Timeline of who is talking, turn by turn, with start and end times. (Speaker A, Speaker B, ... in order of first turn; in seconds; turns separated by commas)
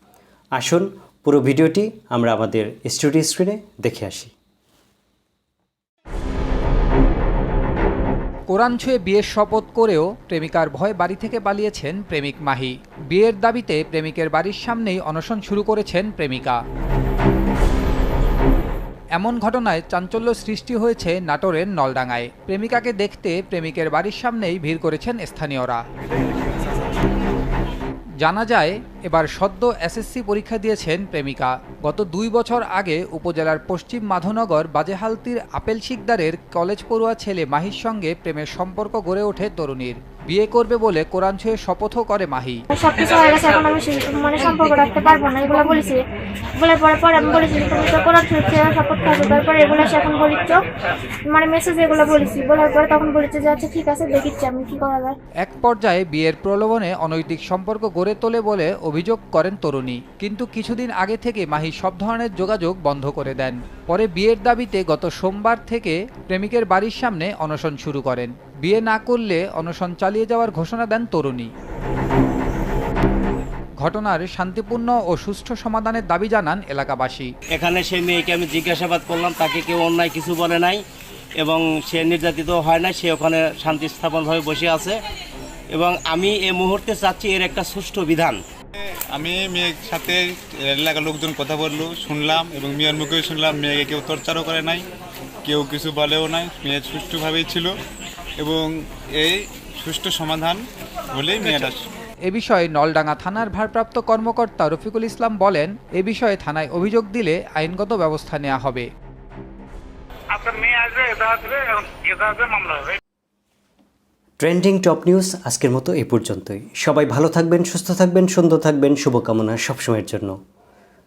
Speaker A: 0.6-4.3, Speaker B: 8.5-16.6, Speaker B: 19.1-25.8, Speaker B: 28.2-42.6, Speaker C: 42.7-46.0, Speaker C: 46.6-50.6, Speaker C: 51.3-55.1, Speaker B: 55.4-71.5, Speaker B: 73.8-77.3, Speaker D: 77.5-80.8, Speaker D: 81.4-85.0, Speaker D: 85.7-88.4, Speaker E: 88.8-94.8, Speaker E: 95.4-97.7, Speaker E: 98.4-101.8, Speaker B: 101.4-101.7, Speaker B: 102.2-108.9, Speaker F: 110.3-113.0, Speaker A: 114.4-120.3